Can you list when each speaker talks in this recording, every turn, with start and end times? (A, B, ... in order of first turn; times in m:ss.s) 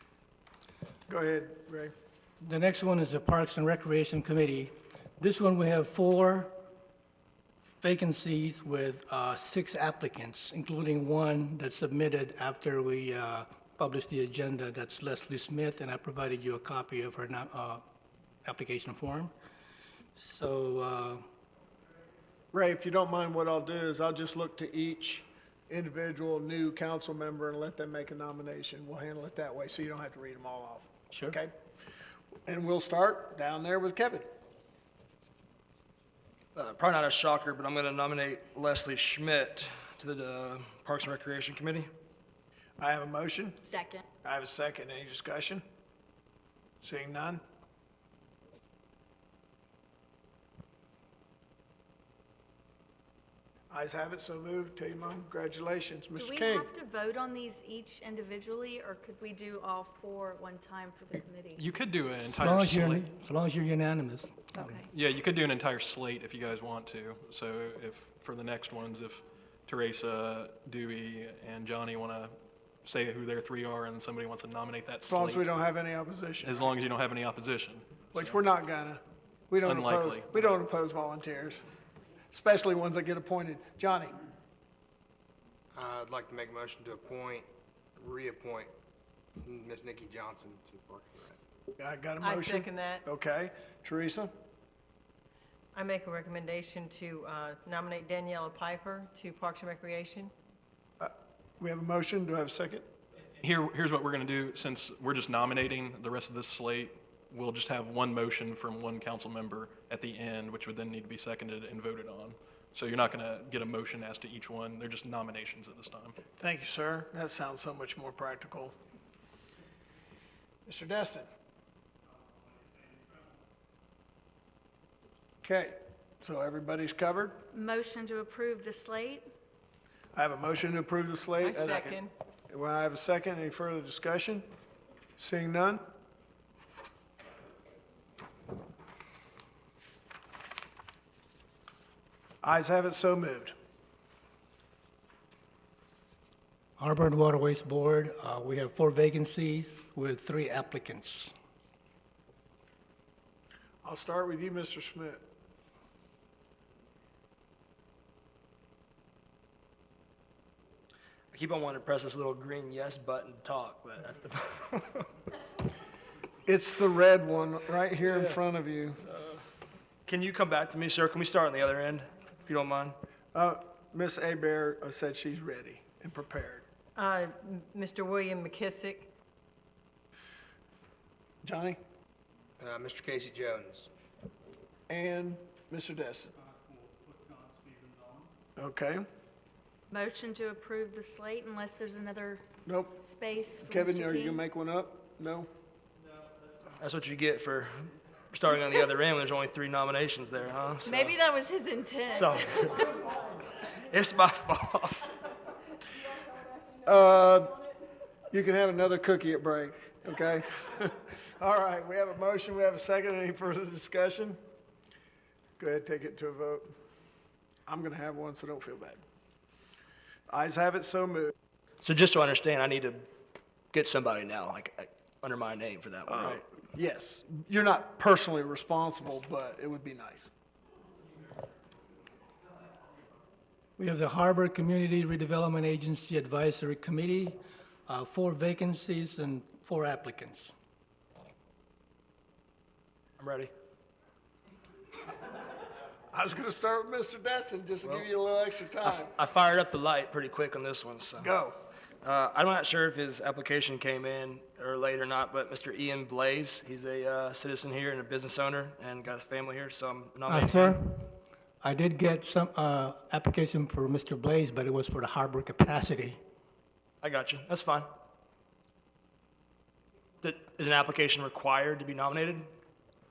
0:01.1-0:01.9 A
0:02.4-0:06.5 B
0:07.8-0:17.8 B
0:18.4-0:19.3 B
0:20.1-0:21.2 B
0:22.5-0:31.5 A
0:31.1-0:31.4 B
0:32.4-0:34.2 A
0:36.5-0:41.9 C
0:42.8-0:43.6 A
0:43.6-0:44.0 D
0:44.2-0:45.6 A
0:46.8-0:47.4 A
0:53.7-0:56.7 A
0:56.1-1:01.6 D
1:01.6-1:03.0 E
1:02.2-1:04.8 B
1:04.5-1:04.9 D
1:04.9-1:15.5 E
1:15.1-1:16.6 A
1:16.4-1:18.4 E
1:18.1-1:21.6 A
1:19.6-1:20.5 E
1:22.3-1:24.2 A
1:25.7-1:28.7 F
1:29.4-1:31.4 F
1:31.8-1:34.3 A
1:32.2-1:33.0 G
1:35.7-1:40.3 G
1:41.0-1:42.9 A
1:43.4-1:56.2 E
1:56.4-1:58.7 A
2:00.6-2:01.3 A
2:05.4-2:07.4 A
2:07.5-2:09.3 D
2:10.1-2:14.4 A
2:11.4-2:12.1 G
2:15.2-2:15.8 A
2:22.4-2:23.5 A
2:26.8-2:31.3 B
2:33.8-2:35.2 A
2:41.3-2:45.5 C
2:46.4-2:49.0 A
2:48.0-2:48.4 C
2:50.1-2:53.0 C
2:53.3-2:56.6 A
2:57.0-2:59.1 G
3:01.4-3:01.8 A
3:02.6-3:03.9 F
3:04.9-3:06.3 A
3:08.6-3:09.0 A
3:09.9-3:12.4 D
3:12.6-3:13.0 A
3:13.0-3:14.4 D
3:13.6-3:15.5 A
3:16.8-3:21.2 C
3:20.8-3:23.0 D
3:22.1-3:22.8 C
3:23.6-3:25.1 C
3:26.8-3:27.6 A
3:28.3-3:34.4 A
3:35.6-3:36.7 A
3:37.7-3:39.0 A
3:40.3-3:41.3 A
3:41.8-3:43.0 C
3:43.7-3:46.4 C
3:46.1-3:50.3 A
3:53.8-4:00.5 B
4:03.2-4:03.5 C
4:06.1-4:09.1 A
4:08.8-4:11.3 C
4:11.2-4:11.6 A
4:12.0-4:20.8 C
4:20.2-4:26.2 B
4:27.0-4:27.9 C
4:30.2-4:32.5 C